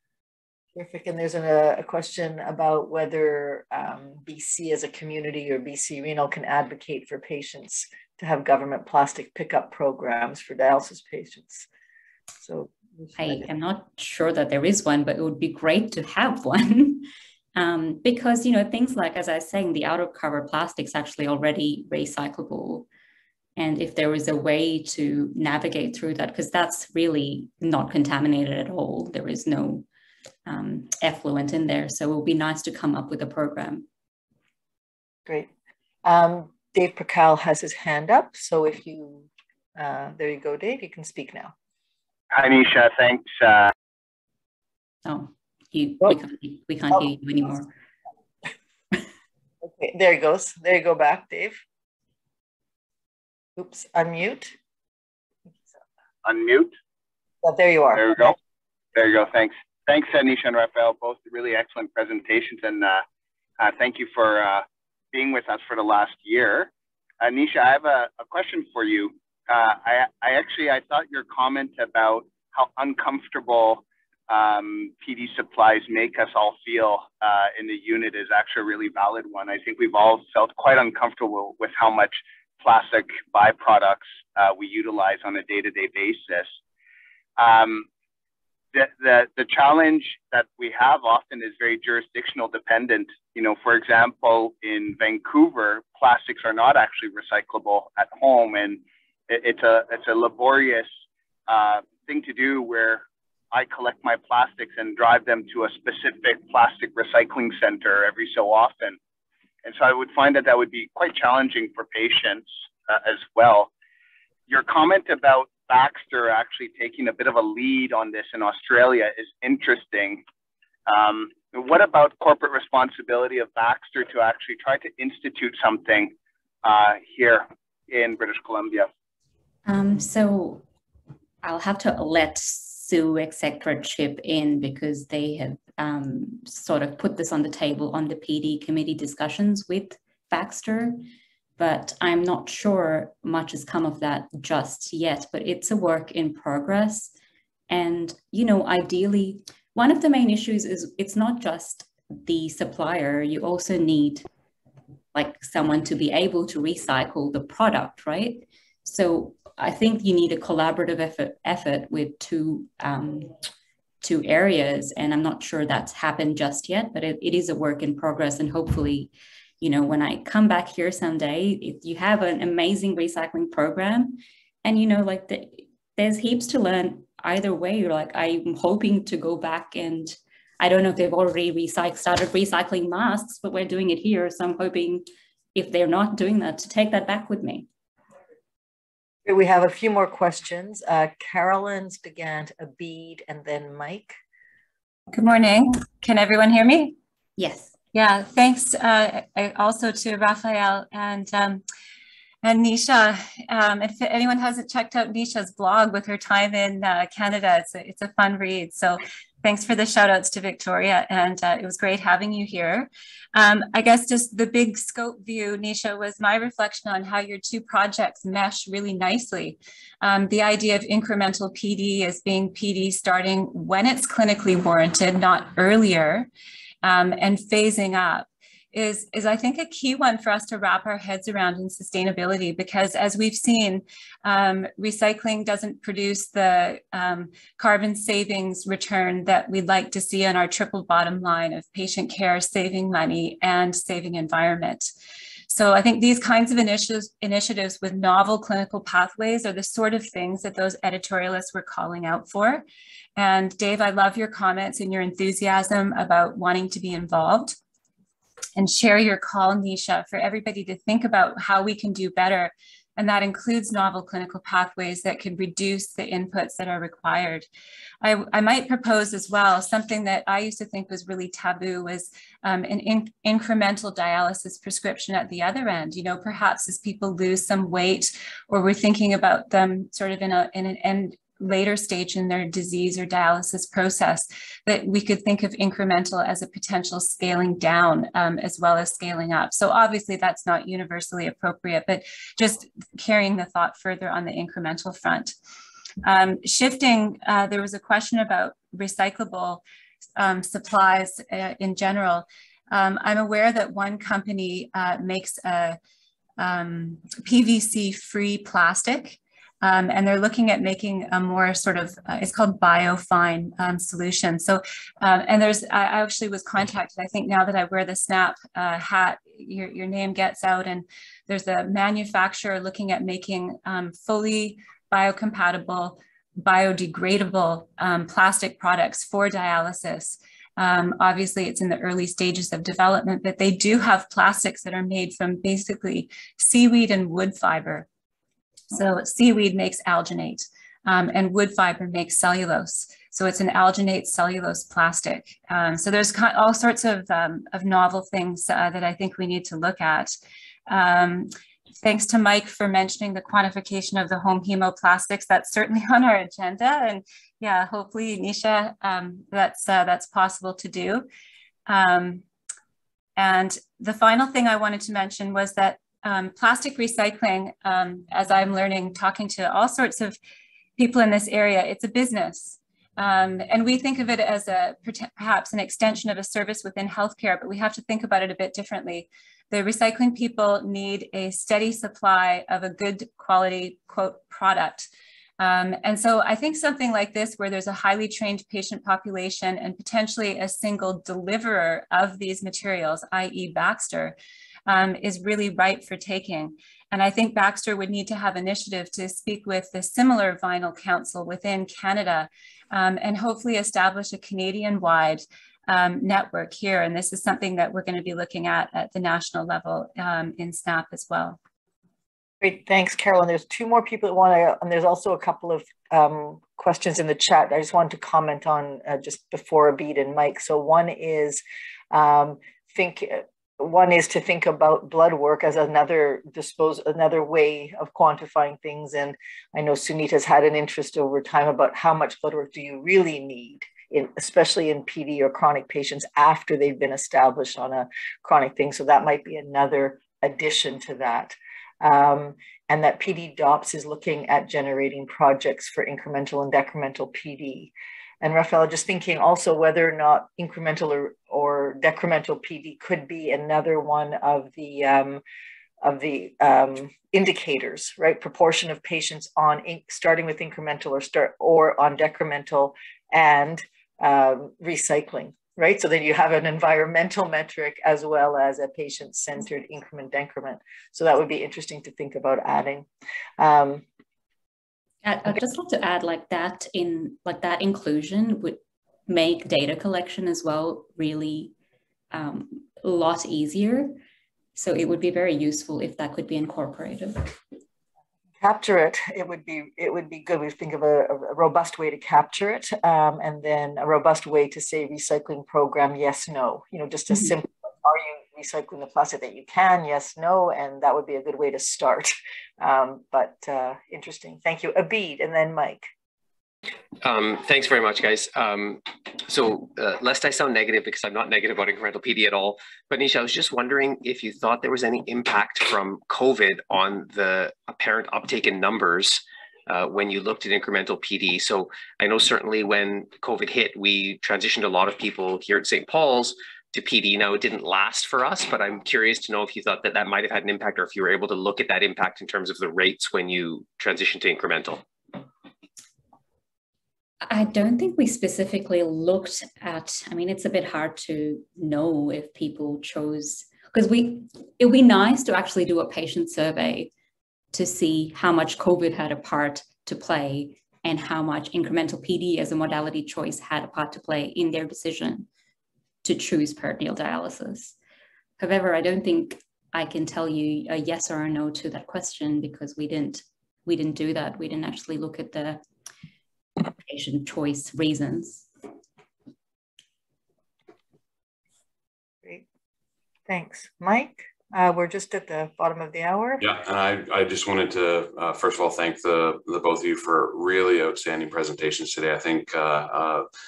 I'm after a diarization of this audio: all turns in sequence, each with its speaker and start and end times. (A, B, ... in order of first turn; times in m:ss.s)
0:00.8-0:11.7 A
0:12.4-0:13.3 A
0:13.2-0:22.9 B
0:23.6-0:29.9 B
0:30.5-0:33.9 B
0:36.0-0:41.5 A
0:42.3-0:43.7 C
0:45.0-0:47.7 B
0:49.6-0:51.6 A
0:53.6-0:54.6 A
0:56.2-0:56.7 C
0:57.4-0:58.3 A
0:57.9-0:58.4 C
0:59.0-1:03.0 C
1:03.6-1:06.7 C
1:07.2-1:26.6 C
1:27.4-1:27.9 C
1:28.7-1:40.9 C
1:41.5-1:49.0 C
1:49.6-1:53.7 C
1:54.5-2:00.2 C
2:00.9-2:06.1 C
2:06.6-2:08.9 C
2:09.7-2:10.6 B
2:11.4-2:21.0 B
2:21.6-2:27.1 B
2:27.7-2:34.2 B
2:35.1-2:43.3 B
2:44.0-3:07.7 B
3:09.3-3:14.1 A
3:15.1-3:17.0 D
3:17.4-3:17.8 B
3:17.9-3:21.6 D
3:22.4-3:46.3 D
3:46.8-4:04.9 D
4:05.5-4:12.6 D
4:13.2-4:17.6 D
4:18.6-4:27.5 D
4:28.0-4:55.3 D
4:56.0-4:59.6 D
5:00.2-5:05.8 D
5:06.4-5:37.9 D
5:38.7-5:50.2 D
5:50.7-6:01.1 D
6:01.7-6:02.2 D
6:03.2-6:10.2 D
6:10.8-6:34.2 D
6:34.7-6:51.4 D
6:52.4-7:35.2 A
7:35.8-7:52.9 A
7:53.4-7:53.8 A
7:55.0-8:01.5 B
8:02.1-8:04.0 B
8:04.6-8:07.4 B
8:08.4-8:25.9 A
8:27.0-8:54.8 E
8:57.2-9:06.9 B
9:07.5-9:15.3 B
9:16.0-9:17.8 B
9:18.4-9:25.6 B
9:26.8-9:28.5 B
9:33.3-9:36.4 A
9:36.4-9:43.3 F